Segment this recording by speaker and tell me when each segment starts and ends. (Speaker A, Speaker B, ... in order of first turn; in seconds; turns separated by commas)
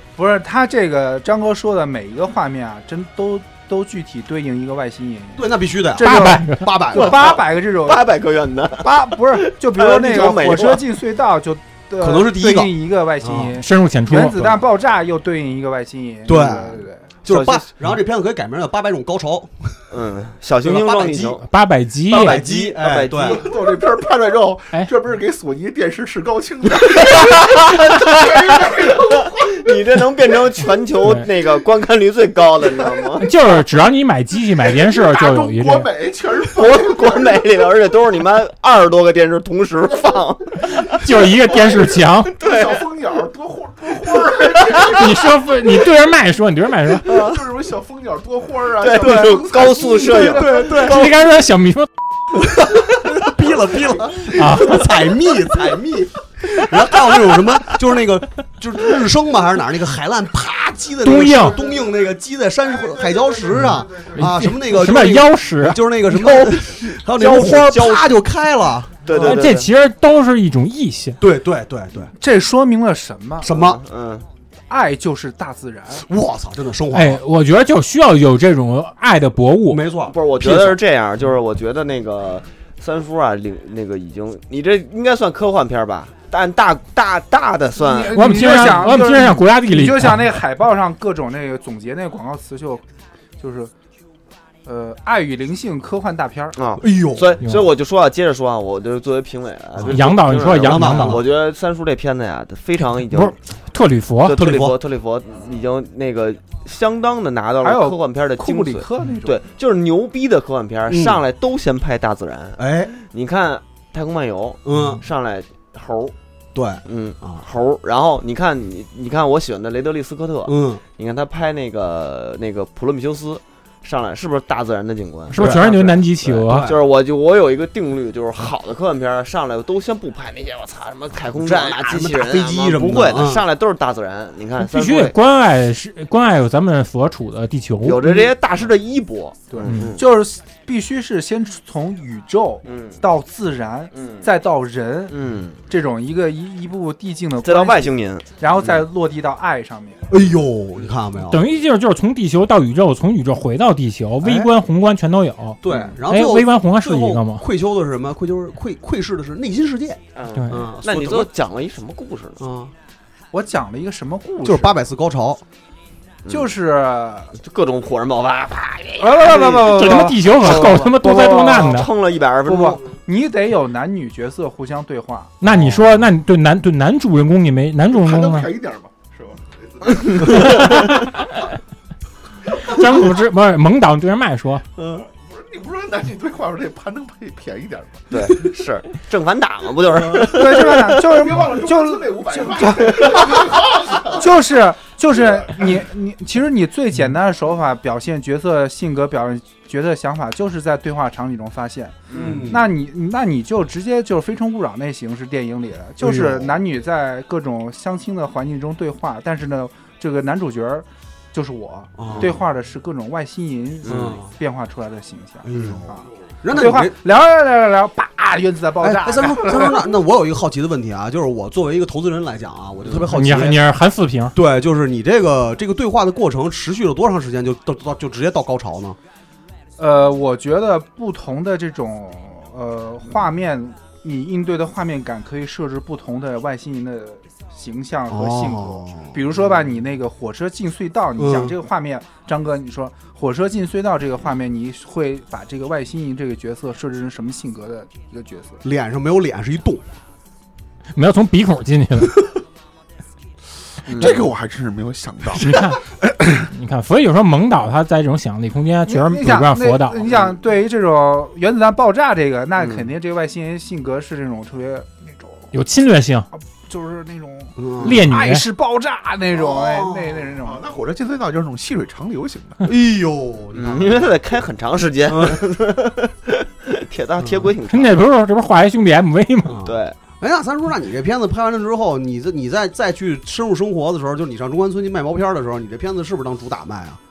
Speaker A: 0.1-8.1, Speaker B: 5.3-7.3, Speaker C: 6.0-6.7, Speaker D: 6.9-10.8, Speaker A: 8.8-17.1, Speaker B: 12.0-13.5, Speaker C: 13.6-14.6, Speaker B: 16.2-19.8, Speaker D: 17.2-17.6, Speaker D: 19.9-21.4, Speaker B: 20.6-21.4, Speaker C: 21.4-22.4, Speaker D: 22.1-23.5, Speaker B: 22.1-23.5, Speaker E: 23.1-29.5, Speaker D: 26.9-33.3, Speaker E: 32.8-33.1, Speaker C: 33.2-35.9, Speaker E: 34.7-37.4, Speaker D: 36.5-41.3, Speaker C: 40.9-42.4, Speaker E: 41.4-45.5, Speaker D: 42.4-42.9, Speaker D: 44.3-44.9, Speaker C: 44.9-47.2, Speaker D: 47.0-47.4, Speaker E: 47.0-50.6, Speaker D: 48.8-51.2, Speaker B: 49.0-49.3, Speaker B: 50.0-51.0, Speaker C: 50.7-51.9, Speaker B: 53.0-69.4, Speaker C: 54.3-55.0, Speaker C: 61.0-61.6, Speaker E: 62.9-63.1, Speaker C: 63.5-68.0, Speaker D: 66.4-68.1, Speaker D: 69.0-69.7, Speaker C: 69.2-71.2, Speaker B: 71.2-72.1, Speaker A: 72.2-73.5, Speaker B: 73.4-73.8, Speaker D: 73.5-74.3, Speaker A: 74.7-76.0, Speaker B: 76.1-77.2, Speaker C: 76.9-79.8, Speaker B: 79.7-80.8, Speaker D: 80.1-88.8, Speaker A: 87.8-92.8, Speaker C: 88.1-90.3, Speaker A: 93.4-93.7, Speaker A: 94.6-96.5, Speaker D: 96.5-103.4, Speaker B: 96.8-97.3, Speaker C: 97.4-97.7, Speaker C: 99.8-101.2, Speaker B: 100.6-101.2, Speaker C: 103.1-104.4, Speaker D: 104.2-116.1, Speaker B: 104.3-104.8, Speaker A: 107.6-109.4, Speaker B: 110.9-111.2, Speaker B: 112.6-112.9, Speaker B: 114.6-115.0, Speaker B: 116.5-117.5, Speaker D: 116.8-135.1, Speaker B: 120.4-120.8, Speaker C: 125.3-126.7, Speaker B: 125.4-126.8, Speaker B: 131.3-133.4, Speaker C: 134.6-138.0, Speaker D: 137.8-140.0, Speaker A: 139.5-150.1, Speaker C: 139.6-139.9, Speaker D: 142.6-143.0, Speaker D: 143.9-144.3, Speaker D: 145.1-145.6, Speaker D: 147.4-148.8, Speaker B: 150.1-151.4, Speaker C: 151.3-157.4, Speaker B: 154.2-154.5, Speaker B: 155.6-161.3, Speaker D: 160.2-162.4, Speaker C: 160.3-160.6, Speaker B: 162.4-162.7, Speaker A: 163.3-164.7, Speaker B: 164.4-165.4, Speaker A: 166.3-167.3, Speaker D: 167.3-172.8, Speaker A: 169.0-170.9, Speaker C: 169.6-171.9, Speaker A: 172.4-175.4, Speaker C: 175.4-178.5, Speaker B: 175.4-176.0, Speaker E: 177.9-181.0, Speaker C: 180.3-181.1, Speaker C: 182.6-184.6, Speaker B: 184.8-185.0, Speaker E: 185.0-188.1, Speaker D: 188.1-191.0, Speaker A: 190.2-219.9, Speaker E: 191.0-194.3, Speaker E: 195.1-195.7, Speaker D: 202.1-202.4, Speaker B: 202.1-202.7, Speaker B: 206.0-206.5, Speaker B: 212.0-212.4, Speaker D: 213.8-214.2, Speaker B: 213.8-214.3, Speaker B: 215.4-217.0, Speaker B: 218.8-223.6, Speaker C: 223.0-224.3, Speaker B: 224.3-229.0, Speaker A: 229.8-248.6, Speaker B: 238.1-239.7, Speaker B: 241.2-241.5, Speaker B: 248.6-249.8, Speaker C: 250.9-252.2, Speaker D: 253.9-254.3, Speaker E: 253.9-256.4, Speaker C: 255.3-255.8, Speaker C: 256.3-260.1, Speaker A: 258.9-265.5, Speaker D: 262.6-262.9, Speaker C: 265.5-266.3, Speaker A: 266.5-270.6, Speaker B: 267.6-268.0, Speaker C: 267.8-268.5, Speaker B: 269.3-270.3, Speaker E: 270.4-272.6, Speaker B: 272.6-274.1, Speaker D: 273.5-278.0, Speaker B: 275.1-275.4, Speaker B: 277.2-277.5, Speaker C: 277.7-279.6, Speaker B: 279.4-287.0, Speaker D: 279.6-280.0